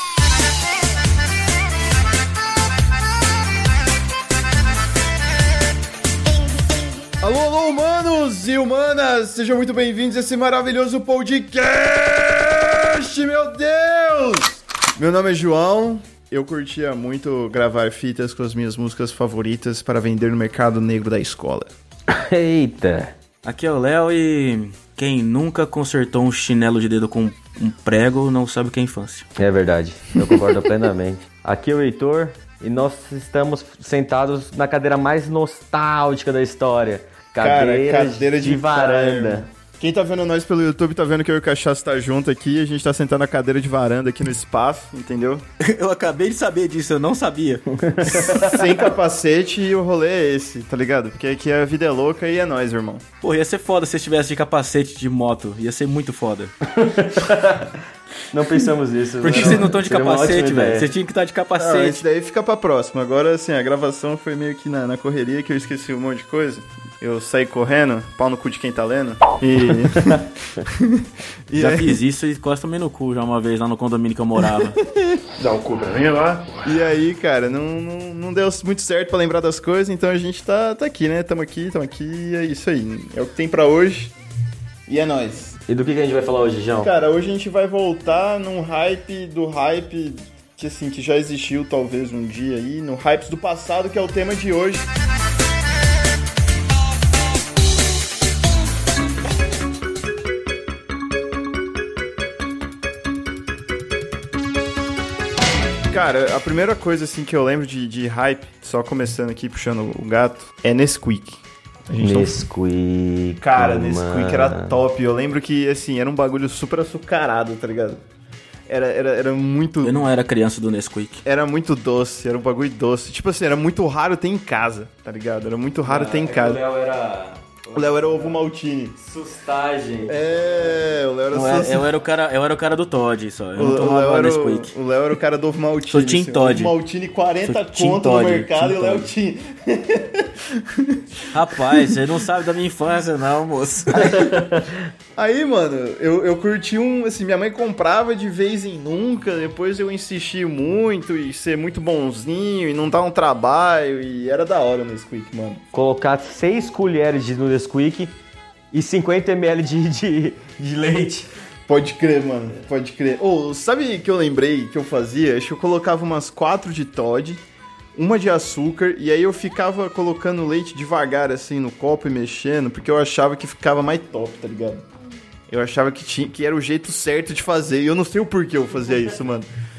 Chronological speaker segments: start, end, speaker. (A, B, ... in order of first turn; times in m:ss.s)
0:07.2-0:21.7 A
0:22.1-0:23.1 B
0:23.4-0:29.3 C
0:29.4-0:39.4 B
0:37.4-0:45.4 A
0:45.6-0:47.6 C
0:47.9-0:48.5 B
0:48.2-0:53.0 A
0:53.2-0:56.5 C
0:56.8-0:57.8 B
0:58.3-1:00.9 B
0:59.2-1:02.0 C
0:59.3-0:59.6 A
1:01.6-1:12.0 A
1:11.6-1:14.8 C
1:14.5-1:24.1 A
1:24.9-1:25.6 A
1:25.7-1:26.9 B
1:26.8-1:34.9 A
1:45.9-1:52.4 A
1:52.0-1:54.8 B
1:53.4-1:58.0 A
1:58.7-2:00.1 A
1:59.8-2:01.2 C
2:01.2-2:06.6 A
2:05.8-2:08.4 B
2:07.7-2:09.0 A
2:09.0-2:10.2 B
2:10.1-2:11.9 A
2:11.3-2:14.7 C
2:13.6-2:21.0 A
2:15.9-2:16.7 C
2:17.4-2:19.1 C
2:21.3-2:24.3 C
2:21.7-2:22.0 A
2:23.9-2:24.5 A
2:24.3-2:24.6 B
2:25.2-2:35.6 A
2:35.7-2:38.1 B
2:38.7-2:41.3 B
2:41.7-2:47.4 A
2:47.9-2:54.8 A
2:55.5-2:59.5 A